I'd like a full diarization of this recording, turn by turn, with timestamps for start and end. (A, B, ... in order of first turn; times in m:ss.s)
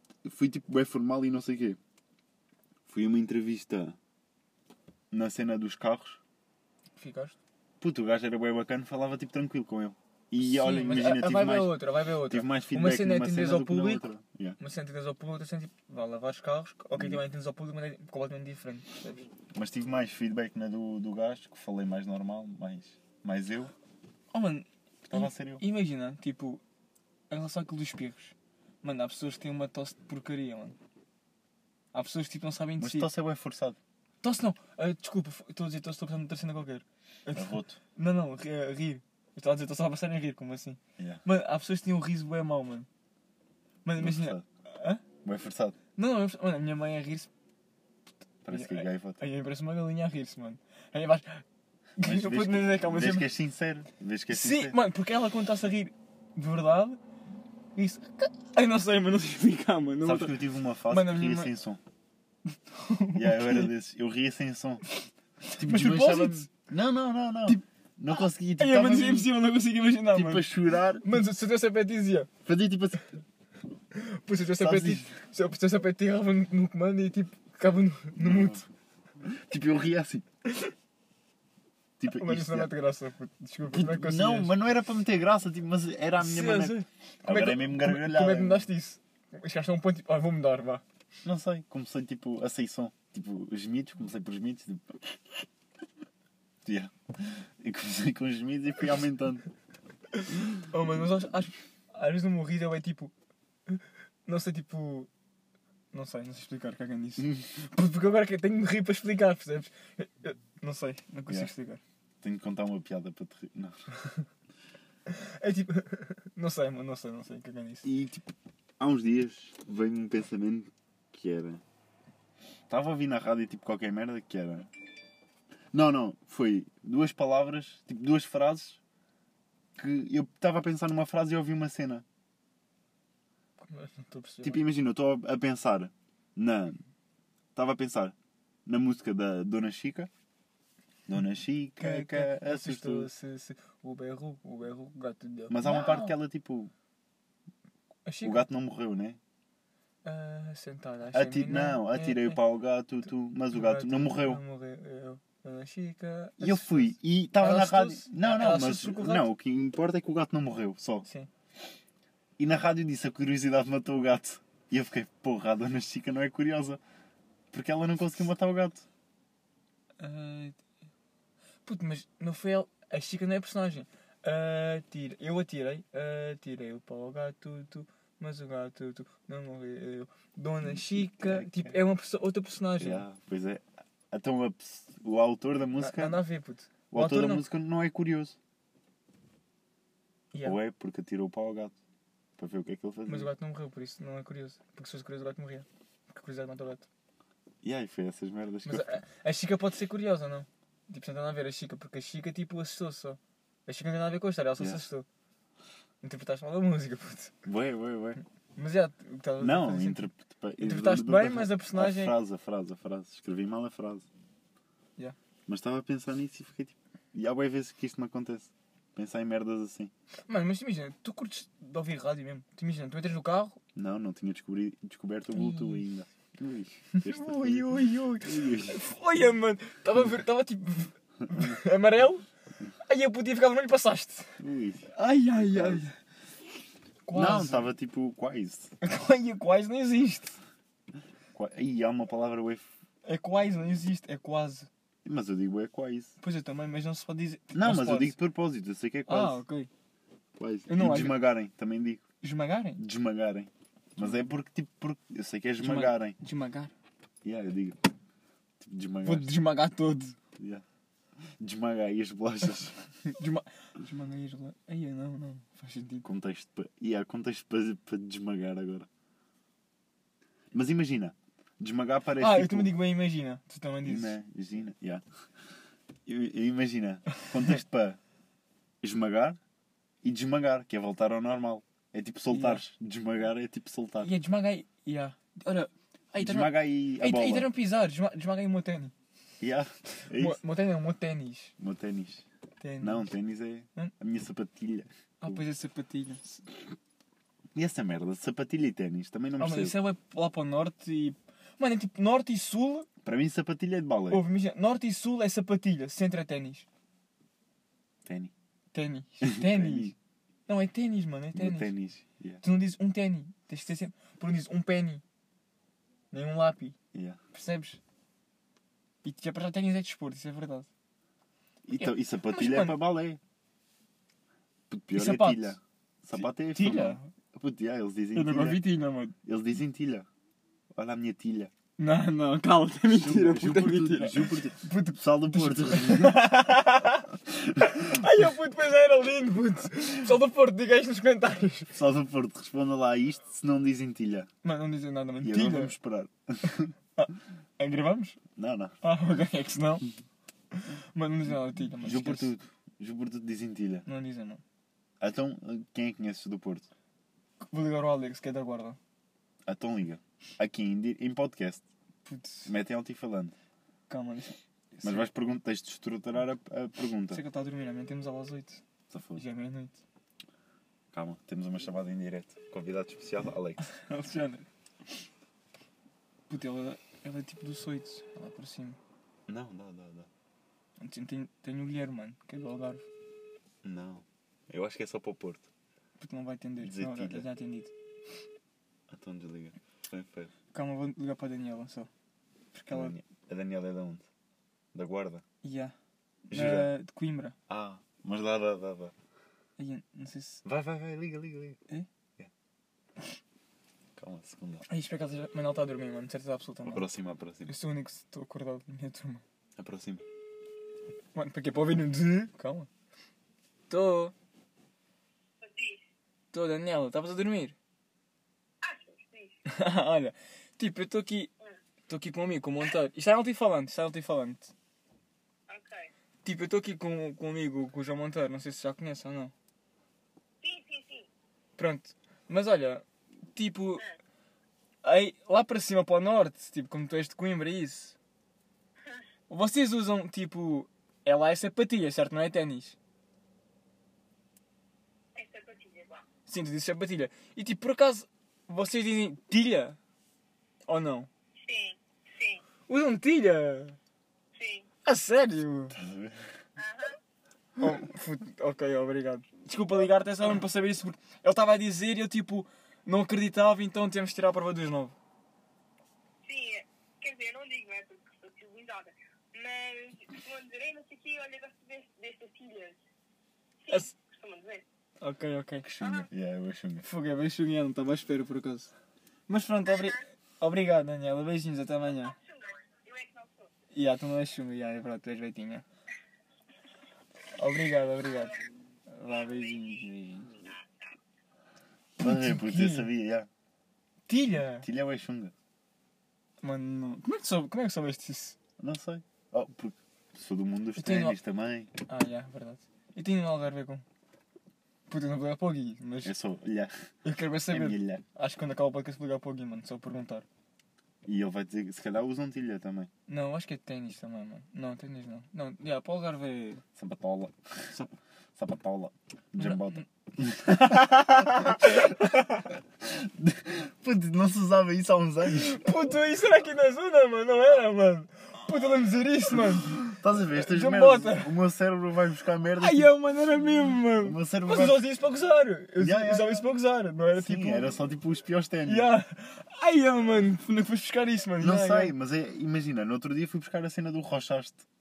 0:00.2-0:01.8 A
0:02.8-0:04.0 A
0:05.1-0:06.2 A
0:07.0-0:07.4 B
0:07.8-0:14.6 A
0:10.4-0:19.2 B
0:17.0-0:17.2 A
0:19.5-0:23.7 A
0:24.3-0:26.6 B
0:25.0-0:25.6 A
0:27.3-0:30.8 B
0:31.9-0:33.1 B
0:32.8-0:33.8 A
0:34.2-0:42.9 B
0:37.3-0:37.8 A
0:41.0-0:41.2 A
0:43.8-0:45.0 B
0:44.0-0:44.4 A
0:45.2-0:45.8 A
0:46.0-0:47.3 B
0:48.4-0:49.2 A
0:48.5-0:51.4 B
0:52.0-0:53.3 B
0:52.0-0:54.8 A
0:54.3-0:57.0 B
0:57.7-1:01.5 B
1:00.0-1:01.8 A
1:02.5-1:03.7 B
1:03.1-1:04.8 A
1:05.0-1:06.5 B
1:05.6-1:09.3 A
1:08.2-1:10.5 B
1:10.1-1:11.2 A
1:11.0-1:12.3 B
1:12.4-1:13.1 A
1:13.9-1:18.7 B
1:14.6-1:15.1 A
1:18.2-1:18.6 A
1:19.2-1:20.2 A
1:20.4-1:20.7 B
1:22.0-1:22.7 A
1:22.1-1:24.5 B
1:23.7-1:28.6 A
1:26.2-1:30.8 B
1:31.2-1:35.0 A
1:36.6-1:39.4 A
1:40.2-1:43.1 B
1:43.7-1:45.1 B
1:45.9-1:51.8 B
1:52.2-1:53.8 A
1:55.1-1:57.9 B
1:57.8-2:01.6 A
2:02.7-2:04.7 A
2:05.7-2:08.8 A
2:09.8-2:12.0 A
2:13.6-2:14.6 B
2:14.4-2:16.8 A
2:17.5-2:18.1 A
2:18.6-2:20.1 A
2:21.1-2:23.1 A
2:21.8-2:26.2 B
2:25.5-2:26.7 A
2:28.0-2:28.4 B
2:28.2-2:29.2 A
2:30.0-2:32.4 B
2:31.1-2:34.4 A
2:33.5-2:39.3 B
2:36.4-2:41.0 A
2:42.4-2:46.8 A
2:47.5-2:48.8 A
2:50.0-2:50.6 B
2:51.6-3:03.0 B
3:00.6-3:01.8 A
3:02.8-3:06.2 A
3:05.8-3:07.4 B
3:06.9-3:08.4 A
3:10.3-3:10.6 B
3:10.4-3:11.7 A
3:12.4-3:13.3 A
3:13.0-3:16.9 B
3:17.6-3:18.9 A
3:18.6-3:25.0 B
3:24.6-3:24.8 A
3:26.0-3:27.3 B
3:27.4-3:28.2 A
3:28.5-3:32.1 B
3:29.4-3:34.1 A
3:35.5-3:39.9 A
3:40.3-3:43.6 B
3:43.7-3:48.9 A
3:45.3-3:45.8 B
3:46.9-3:54.4 B
3:54.4-3:55.8 A
3:54.9-3:56.0 B
3:57.0-3:57.7 B
3:57.1-3:58.7 A
3:58.8-4:00.4 B
4:01.3-4:02.7 A
4:03.0-4:04.7 B
4:05.0-4:06.2 A
4:06.2-4:08.2 B
4:07.5-4:09.4 A
4:09.1-4:09.7 B
4:10.4-4:12.0 A
4:10.7-4:11.2 B
4:12.2-4:12.8 B
4:12.8-4:16.2 A
4:14.0-4:14.3 B
4:15.6-4:16.7 B
4:17.2-4:17.8 A
4:18.6-4:19.4 A
4:19.0-4:20.2 B
4:20.4-4:20.6 A
4:21.4-4:22.7 A
4:23.0-4:26.0 B
4:26.0-4:28.9 A
4:30.5-4:32.7 A
4:32.2-4:34.2 B
4:33.8-4:35.0 A
4:36.0-4:38.0 A
4:38.8-4:39.4 A
4:40.0-4:44.1 A
4:42.3-4:42.6 B
4:44.0-4:48.9 B
4:46.2-4:47.5 A
4:49.4-4:50.4 A
4:50.1-4:51.5 B
4:51.6-4:52.2 A
4:52.6-4:53.1 B
4:52.8-4:55.4 A
4:55.2-4:56.4 B
4:57.5-4:59.8 A
4:59.4-5:02.9 B
5:03.0-5:04.2 A
5:04.1-5:06.7 B
5:08.0-5:08.3 A
5:08.7-5:09.9 B
5:09.2-5:09.9 A
5:10.5-5:11.7 B
5:11.3-5:12.4 A
5:12.4-5:15.0 B
5:16.1-5:16.7 B
5:16.9-5:17.2 A
5:17.3-5:17.8 B
5:19.0-5:20.7 B
5:21.6-5:23.2 A
5:21.8-5:22.8 B
5:24.7-5:28.6 A
5:24.9-5:25.6 B
5:26.2-5:27.1 B
5:28.1-5:29.1 B
5:29.2-5:30.1 A
5:30.7-5:31.5 A
5:31.8-5:41.7 B
5:32.9-5:36.3 A
5:37.3-5:38.0 A
5:41.7-5:44.3 A
5:44.4-5:45.7 B
5:45.2-5:46.7 A
5:47.0-5:48.2 B
5:48.4-5:48.7 A
5:48.8-5:49.9 B
5:50.5-5:52.3 B
5:51.8-5:53.8 A
5:53.8-5:54.4 B
5:55.0-5:56.7 A
5:57.4-5:58.8 B
5:59.4-6:01.6 A
6:02.0-6:02.5 B
6:02.4-6:03.3 A
6:03.9-6:05.1 B
6:04.8-6:07.2 A
6:07.1-6:08.6 B
6:08.9-6:09.2 A
6:09.2-6:09.8 B
6:10.9-6:13.6 A
6:13.6-6:14.5 B
6:16.3-6:18.8 B
6:19.3-6:20.1 A
6:20.8-6:22.8 B
6:23.6-6:25.5 A
6:26.0-6:27.7 B
6:26.6-6:27.3 A
6:28.9-6:30.3 A
6:30.5-6:31.9 B
6:32.5-6:32.9 B
6:32.7-6:34.1 A
6:34.7-6:35.2 A
6:35.4-6:35.7 B
6:36.3-6:37.4 B
6:36.3-6:36.7 A
6:37.5-6:38.9 A
6:39.6-6:40.4 B
6:40.4-6:41.6 A
6:44.0-6:44.6 A
6:44.7-6:46.9 B
6:46.6-6:47.5 A
6:47.4-6:49.2 B
6:49.6-6:50.0 A
6:51.1-6:52.7 B
6:53.7-6:54.1 B
6:55.4-6:55.8 C
6:56.3-6:57.6 B
6:58.6-6:59.3 C
6:59.4-7:01.3 B
7:01.9-7:04.5 B
7:05.5-7:05.9 C
7:06.2-7:09.3 B
7:10.4-7:11.1 C
7:11.6-7:13.8 B
7:14.8-7:18.0 B
7:19.3-7:22.8 B
7:25.1-7:26.0 C
7:26.3-7:29.8 B
7:30.7-7:31.1 B
7:31.4-7:32.4 C
7:32.7-7:33.8 B
7:34.3-7:34.7 C
7:34.8-7:35.8 B
7:35.7-7:36.2 A
7:36.6-7:37.0 C
7:37.6-7:45.0 B
7:46.2-7:52.8 C
7:53.6-7:54.6 C
7:55.0-7:55.7 B
7:55.6-7:56.8 A
7:55.8-7:56.1 C
7:56.8-7:58.7 B
7:59.3-8:02.2 B
8:01.9-8:03.5 C
8:03.7-8:05.6 B
8:07.3-8:10.4 B
8:09.1-8:10.9 C
8:12.0-8:12.9 B
8:12.0-8:13.3 A
8:14.1-8:14.7 B
8:14.6-8:15.3 A
8:16.4-8:18.4 B
8:18.6-8:21.7 A
8:20.8-8:21.2 B
8:21.8-8:23.8 B
8:24.9-8:26.2 B
8:26.0-8:26.7 A
8:27.0-8:30.2 B
8:27.5-8:28.0 A
8:31.0-8:32.9 A
8:33.1-8:36.6 B
8:36.8-8:37.3 A
8:38.4-8:42.2 A
8:39.4-8:39.8 B
8:40.4-8:42.5 B
8:42.8-8:45.6 A
8:45.2-8:51.3 B
8:49.8-8:52.9 A
8:52.6-8:57.7 B
8:54.0-8:54.8 A
8:55.8-8:56.4 A
8:57.2-8:58.9 A
8:58.6-9:01.9 B
9:01.4-9:04.6 A